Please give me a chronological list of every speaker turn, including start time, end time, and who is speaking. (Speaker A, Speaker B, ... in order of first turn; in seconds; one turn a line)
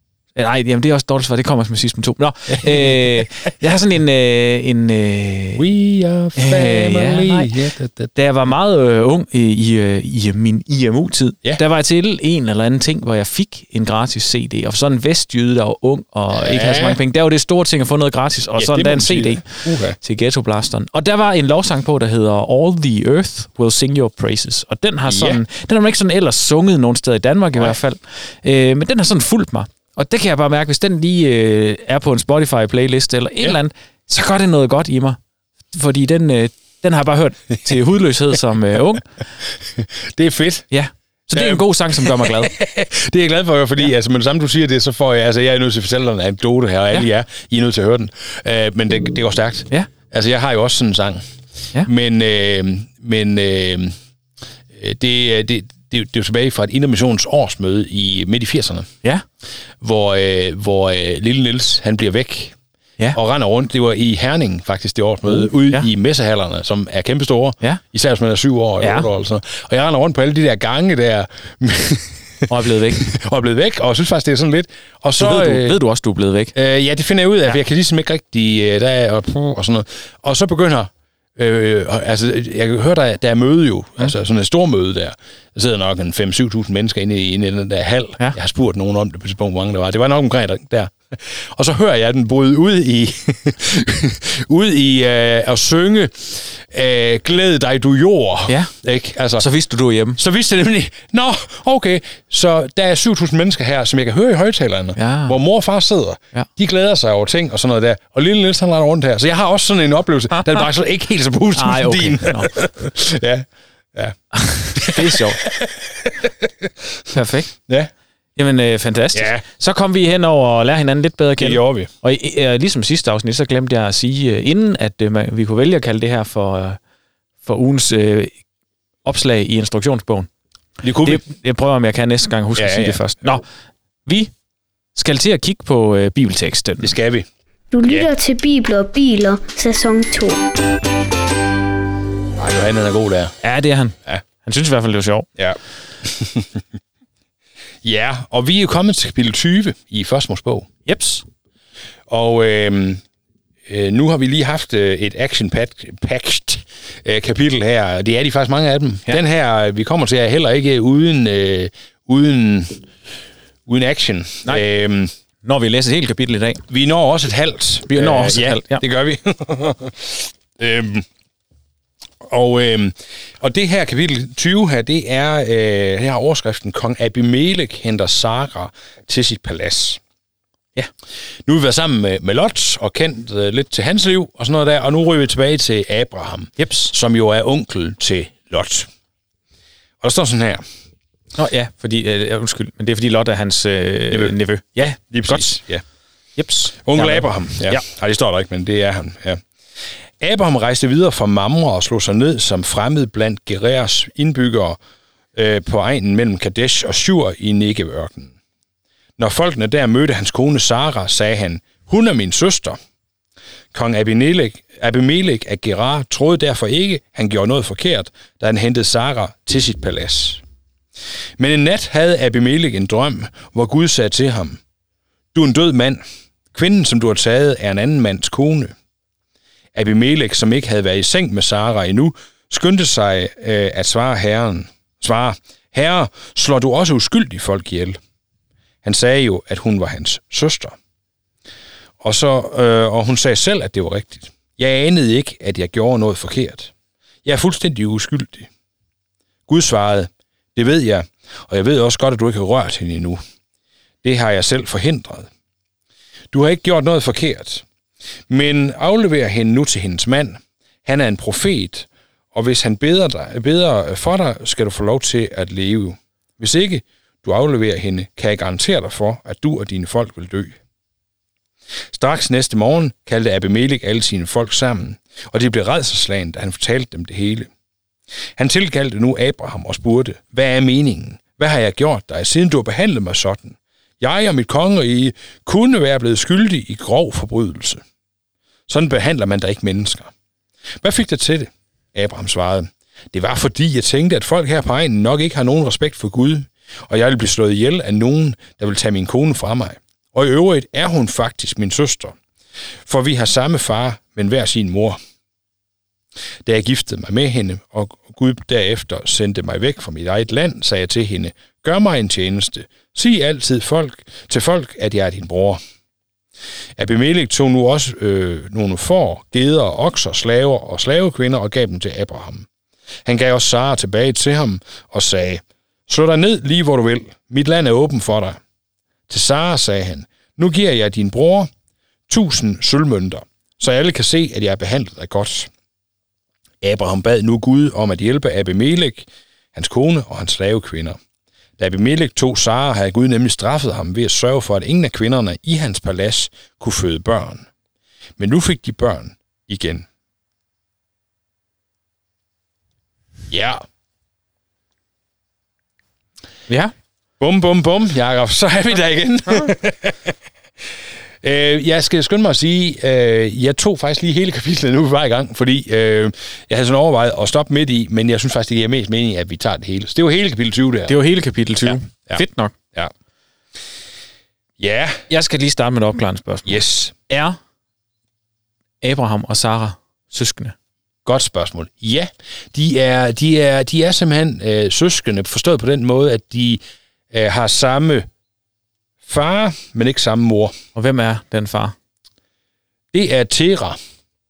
Speaker A: 0.3-5.6
Speaker B: 2.6-3.2
Speaker B: 5.6-8.1
Speaker A: 6.4-7.5
Speaker A: 8.1-35.2
Speaker B: 16.3-17.0
Speaker B: 18.6-20.0
Speaker B: 25.1-25.4
Speaker A: 35.7-39.1
Speaker B: 39.7-40.7
Speaker A: 40.7-42.6
Speaker B: 41.3-51.2
Speaker B: 51.8-53.9
Speaker B: 54.7-58.9
Speaker B: 59.8-62.5
Speaker B: 63.1-75.8
Speaker A: 65.3-65.9
Speaker A: 68.8-69.1
Speaker A: 72.5-73.1
Speaker A: 75.2-76.5
Speaker B: 76.5-99.5
Speaker A: 99.4-100.2
Speaker B: 100.2-116.7
Speaker A: 105.0-105.4
Speaker A: 111.5-112.6
Speaker A: 114.4-115.4
Speaker A: 117.1-117.5
Speaker A: 118.3-126.8
Speaker B: 119.1-119.4
Speaker B: 121.4-121.9
Speaker A: 127.4-128.3
Speaker A: 129.0-130.3
Speaker B: 130.8-131.2
Speaker A: 131.0-133.4
Speaker B: 132.6-133.0
Speaker A: 134.1-134.3
Speaker A: 134.9-136.9
Speaker B: 136.8-137.3
Speaker C: 137.7-140.4
Speaker B: 142.4-143.3
Speaker A: 143.4-145.3
Speaker B: 145.4-146.6
Speaker B: 147.8-150.7
Speaker A: 150.8-151.2
Speaker B: 152.1-153.0
Speaker B: 153.7-162.9
Speaker B: 163.7-165.1
Speaker A: 165.4-166.6
Speaker B: 166.7-171.1
Speaker A: 167.9-168.8
Speaker B: 172.2-180.0
Speaker B: 181.4-188.9
Speaker A: 186.6-186.9
Speaker B: 190.0-190.6
Speaker A: 191.3-195.6
Speaker B: 194.9-195.8
Speaker A: 196.4-197.8
Speaker B: 196.8-199.4
Speaker B: 200.2-204.8
Speaker B: 205.3-208.3
Speaker B: 209.2-212.8
Speaker B: 213.7-220.4
Speaker B: 221.4-224.6
Speaker B: 225.3-226.0
Speaker B: 226.5-228.7
Speaker B: 229.7-238.0
Speaker B: 238.8-240.8
Speaker B: 242.0-246.7
Speaker B: 247.2-248.5
Speaker B: 249.5-253.2
Speaker B: 254.0-255.3
Speaker B: 256.3-257.6
Speaker B: 258.3-270.6
Speaker B: 271.9-277.5
Speaker B: 278.4-287.8
Speaker B: 288.7-290.1
Speaker B: 290.8-302.2
Speaker B: 302.9-305.0
Speaker B: 306.4-315.6
Speaker B: 316.8-322.5
Speaker B: 323.0-328.4
Speaker B: 329.1-331.5
Speaker B: 332.1-335.5
Speaker B: 336.6-341.0
Speaker B: 341.6-347.5
Speaker B: 348.2-349.9
Speaker B: 353.3-353.6
Speaker B: 357.2-360.1
Speaker B: 361.2-370.9
Speaker A: 370.9-372.5
Speaker B: 371.6-372.2
Speaker B: 374.6-375.0
Speaker A: 375.1-377.4
Speaker B: 376.4-376.9
Speaker A: 378.8-380.5
Speaker B: 381.0-388.1
Speaker B: 389.0-390.5
Speaker A: 390.7-391.7
Speaker B: 392.9-393.8